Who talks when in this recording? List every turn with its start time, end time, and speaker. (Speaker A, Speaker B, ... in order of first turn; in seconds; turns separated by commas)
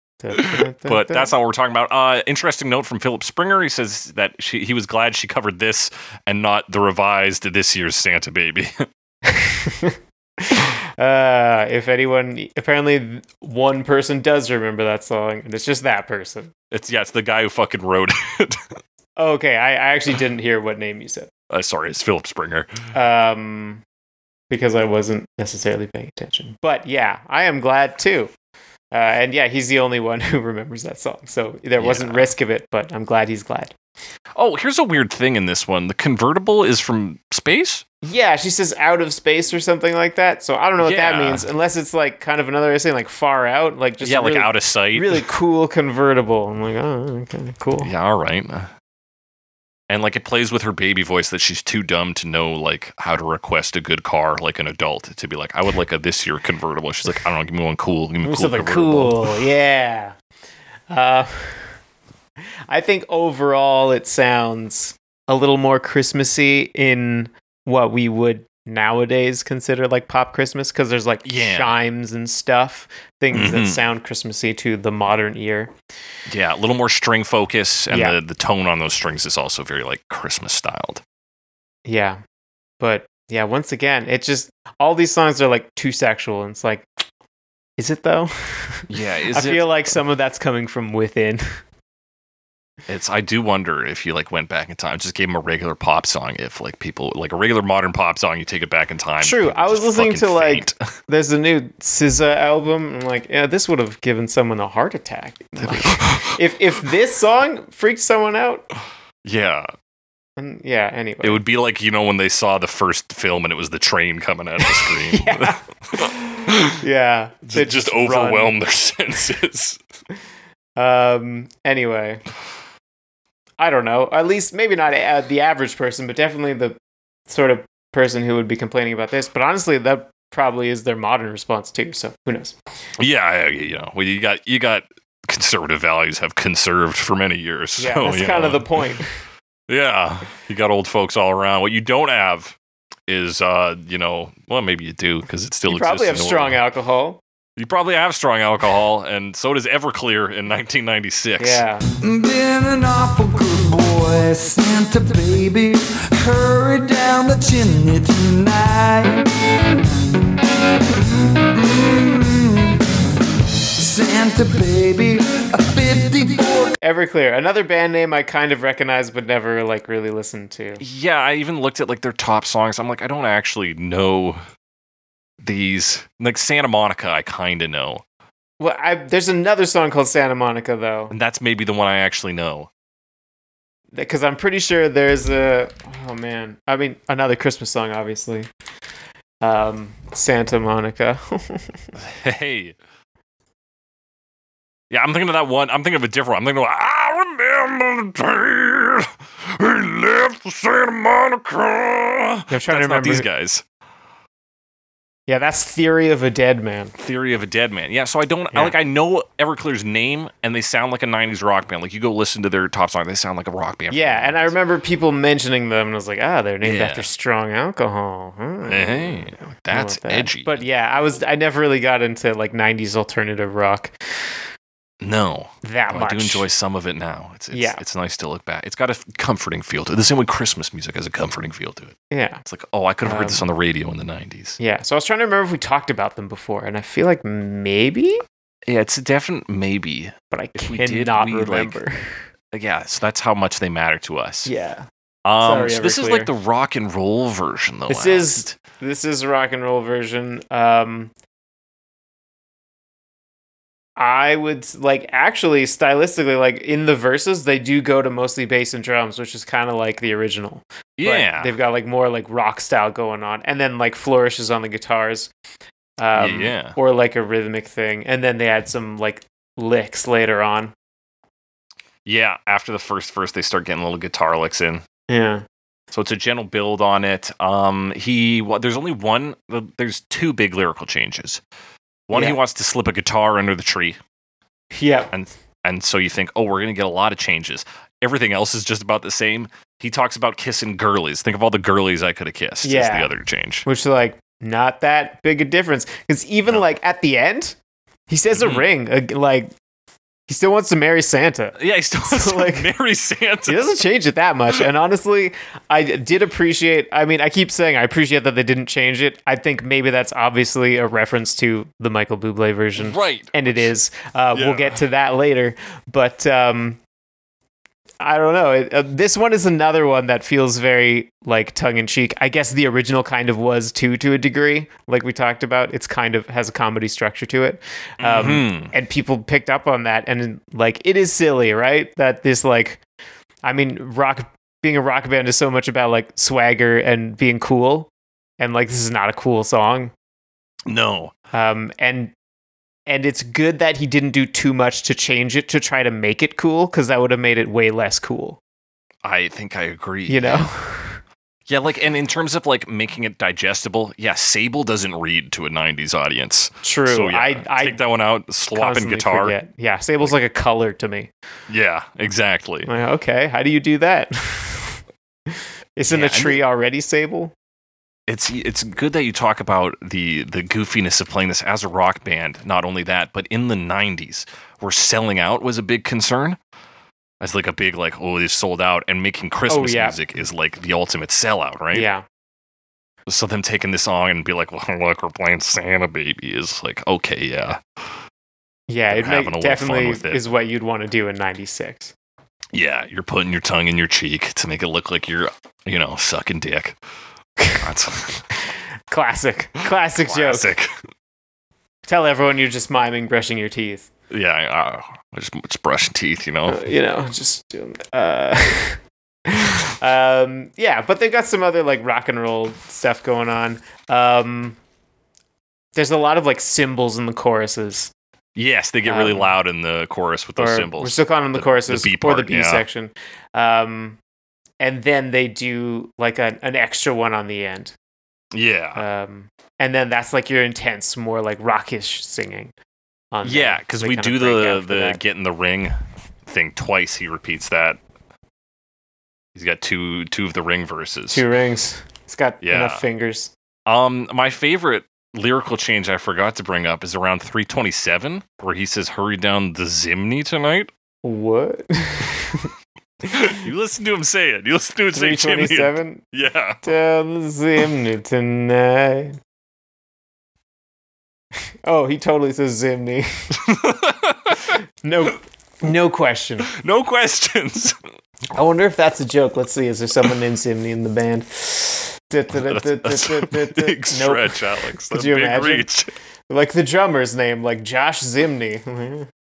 Speaker A: 0.2-1.3, Speaker B: 0.3-8.9, Speaker A: 9.2-16.5, Speaker B: 16.7-18.6, Speaker A: 19.2-21.3, Speaker B: 21.5-22.7, Speaker A: 22.9-23.8, Speaker A: 24.5-28.3, Speaker A: 28.9-33.7, Speaker B: 31.8-32.3, Speaker B: 34.3-37.8, Speaker A: 38.0-47.9, Speaker B: 40.8-41.5, Speaker B: 44.0-45.2, Speaker B: 47.8-48.7, Speaker B: 49.9-59.3, Speaker A: 58.2-60.1, Speaker A: 60.9-61.8, Speaker A: 62.7-75.7, Speaker B: 71.2-71.7, Speaker B: 73.3-73.8, Speaker B: 76.3-81.0, Speaker A: 77.9-78.2, Speaker A: 81.8-82.2, Speaker A: 82.8-86.8, Speaker A: 87.8-91.4, Speaker B: 88.9-89.7, Speaker B: 92.9-100.8, Speaker A: 99.2-108.6, Speaker B: 105.6-106.4, Speaker B: 109.2-109.7, Speaker A: 110.4-111.4, Speaker B: 111.2-116.8, Speaker A: 114.6-118.5, Speaker B: 117.5-119.8, Speaker A: 120.8-122.2, Speaker A: 123.6-132.6, Speaker B: 133.0-138.6, Speaker A: 137.8-139.1, Speaker B: 139.7-142.6, Speaker B: 143.1-146.6, Speaker A: 145.7-147.2, Speaker B: 147.6-151.6, Speaker A: 151.4-151.8, Speaker C: 152.0-159.3, Speaker C: 161.5-162.7, Speaker C: 163.8-166.7, Speaker A: 166.8-170.8, Speaker B: 170.8-174.4, Speaker B: 175.4-178.0, Speaker A: 178.6-181.1, Speaker B: 181.1-182.7, Speaker A: 183.9-188.5, Speaker A: 189.4-191.9, Speaker B: 191.9-192.8, Speaker B: 194.9-203.6, Speaker A: 202.5-203.2, Speaker A: 205.3-206.9, Speaker B: 207.0-214.5, Speaker A: 213.9-224.4, Speaker B: 216.6-217.1, Speaker B: 218.7-220.6, Speaker B: 225.0-234.6, Speaker A: 225.6-226.5, Speaker A: 227.5-227.8, Speaker A: 232.1-232.4, Speaker A: 233.0-233.4, Speaker A: 234.6-238.2, Speaker B: 238.7-241.8, Speaker A: 240.3-242.2, Speaker B: 242.5-244.5, Speaker A: 244.4-244.9, Speaker B: 245.2-248.6, Speaker A: 245.4-246.3, Speaker A: 247.9-251.1, Speaker A: 254.0-265.3, Speaker B: 261.0-261.5, Speaker A: 266.0-270.7, Speaker B: 266.1-266.8, Speaker B: 272.1-274.8, Speaker A: 275.1-275.4, Speaker B: 275.9-281.4, Speaker B: 282.1-284.0, Speaker A: 282.1-282.4, Speaker A: 284.7-285.1, Speaker B: 285.1-293.6, Speaker A: 292.6-293.1, Speaker A: 293.6-297.6, Speaker A: 298.1-299.5, Speaker B: 298.4-298.6, Speaker A: 300.3-302.7, Speaker B: 301.6-303.8, Speaker A: 303.5-316.8, Speaker B: 312.8-313.7, Speaker B: 314.3-314.8, Speaker A: 318.0-332.8, Speaker B: 328.0-328.7, Speaker A: 333.4-339.9, Speaker B: 340.7-341.1, Speaker A: 341.3-342.1, Speaker A: 342.9-348.4, Speaker B: 349.0-350.5, Speaker A: 350.1-351.0, Speaker B: 351.5-359.4, Speaker A: 356.6-357.8, Speaker A: 358.5-361.1, Speaker B: 361.5-362.7, Speaker A: 362.6-367.3, Speaker B: 365.9-366.4, Speaker B: 368.1-376.4, Speaker B: 377.2-381.9, Speaker A: 379.5-380.0, Speaker A: 381.7-382.0, Speaker B: 383.1-387.9, Speaker A: 388.7-391.9, Speaker B: 388.9-390.2, Speaker B: 392.5-396.8, Speaker A: 397.4-397.6, Speaker B: 397.6-398.2, Speaker A: 398.9-400.5, Speaker B: 399.9-400.7, Speaker A: 401.9-403.9, Speaker B: 404.1-406.6, Speaker A: 406.5-414.6, Speaker A: 415.7-417.9, Speaker B: 418.4-422.6, Speaker A: 418.9-419.4, Speaker A: 420.4-424.0, Speaker A: 424.6-427.7, Speaker B: 428.3-428.8, Speaker A: 428.7-432.5, Speaker A: 433.1-435.0, Speaker B: 433.2-437.8, Speaker B: 439.3-441.2, Speaker A: 441.1-443.3, Speaker B: 442.4-442.8, Speaker B: 443.7-450.7, Speaker A: 451.0-452.5, Speaker B: 453.1-456.6, Speaker A: 454.9-456.0, Speaker A: 456.6-459.2, Speaker A: 461.6-463.1, Speaker B: 463.4-464.6, Speaker A: 464.8-466.5, Speaker B: 466.5-467.8, Speaker A: 468.3-475.7, Speaker B: 472.4-475.9, Speaker A: 476.3-479.1